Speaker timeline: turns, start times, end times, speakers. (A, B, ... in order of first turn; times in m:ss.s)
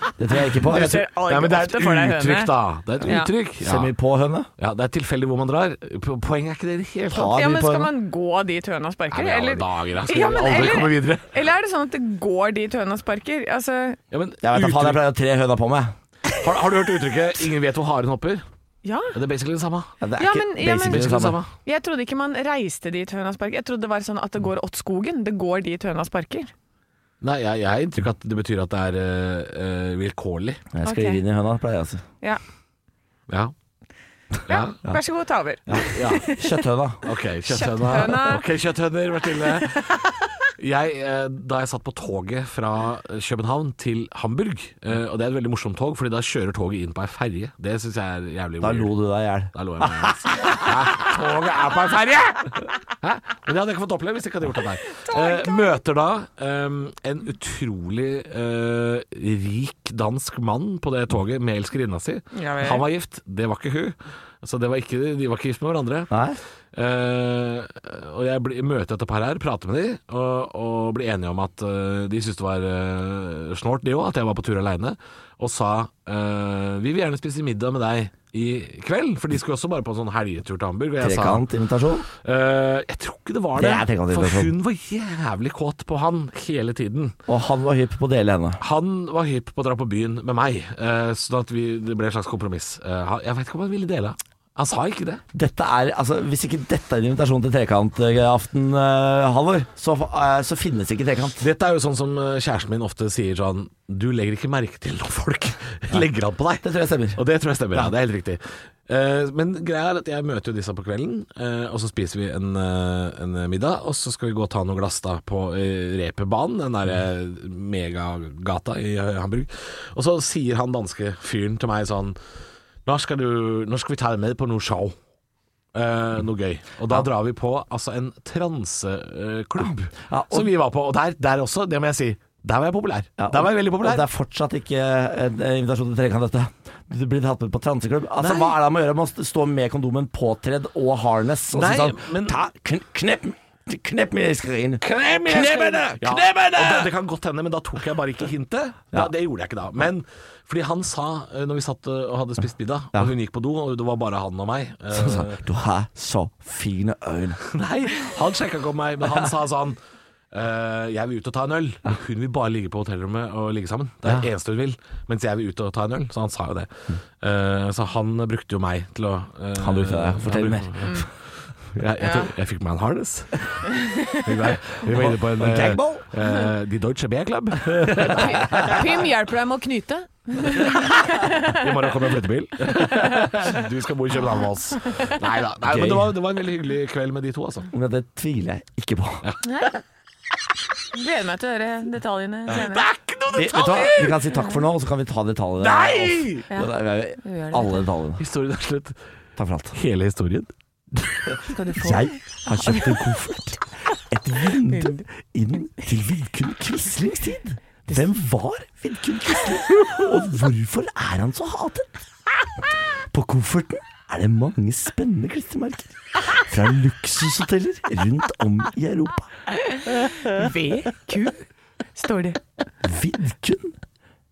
0:00.2-0:01.0 A
0:00.6-0:03.3 B
0:00.6-0:03.9 C
0:03.6-0:04.5 A
0:04.6-0:07.3 C
0:07.1-0:07.9 A
0:07.1-0:14.0 B
0:09.1-0:11.3 C
0:14.1-0:15.0 C
0:14.4-0:15.9 A
0:16.4-0:18.4 C
0:18.8-0:19.1 B
0:19.1-0:19.9 C
0:20.0-0:21.4 A
0:20.2-0:26.5 B
0:20.9-0:21.5 C
0:27.2-0:30.6 C
0:30.7-0:32.0 A
0:30.8-0:31.2 B
0:34.5-0:34.8 C
0:34.5-0:36.6 B
0:35.7-0:37.0 A
0:35.8-0:36.3 C
0:37.0-0:48.9 C
0:37.5-0:38.4 B
0:48.6-0:51.0 A
0:49.5-1:06.1 C
1:02.3-1:02.8 B
1:06.1-1:06.4 A
1:06.7-1:21.4 C
1:21.0-1:22.1 A
1:22.1-1:27.2 C
1:23.6-1:24.5 A
1:27.3-1:28.6 A
1:28.6-1:35.2 C
1:35.3-1:41.4 A
1:41.4-2:02.2 C
1:46.6-1:47.2 A
2:02.8-2:05.0 C
2:05.7-2:14.0 C
2:10.1-2:10.5 A
2:13.2-2:26.9 A
2:18.2-2:18.5 C
2:21.5-2:22.4 C
2:24.8-2:35.4 C
2:34.9-2:37.4 A
2:37.4-2:39.8 C
2:40.3-2:58.8 C
2:49.6-2:51.0 A
2:52.0-2:52.3 B
2:53.7-2:54.2 B
2:54.9-2:56.1 A
2:58.1-3:01.6 B
2:58.4-2:58.8 A
3:00.9-3:07.7 C
3:05.6-3:06.1 A
3:07.7-3:09.2 A
3:09.4-3:09.7 B
3:10.9-3:12.9 B
3:12.5-3:14.2 C
3:13.3-3:18.2 A
3:13.6-3:14.6 B
3:15.6-3:16.5 C
3:16.5-3:17.8 B
3:18.2-3:19.0 C
3:19.4-3:19.8 A
3:19.7-3:21.4 C
3:21.5-3:23.2 B
3:21.8-3:39.3 A
3:24.7-3:25.0 B
3:39.6-3:42.4 B
3:42.8-3:43.7 A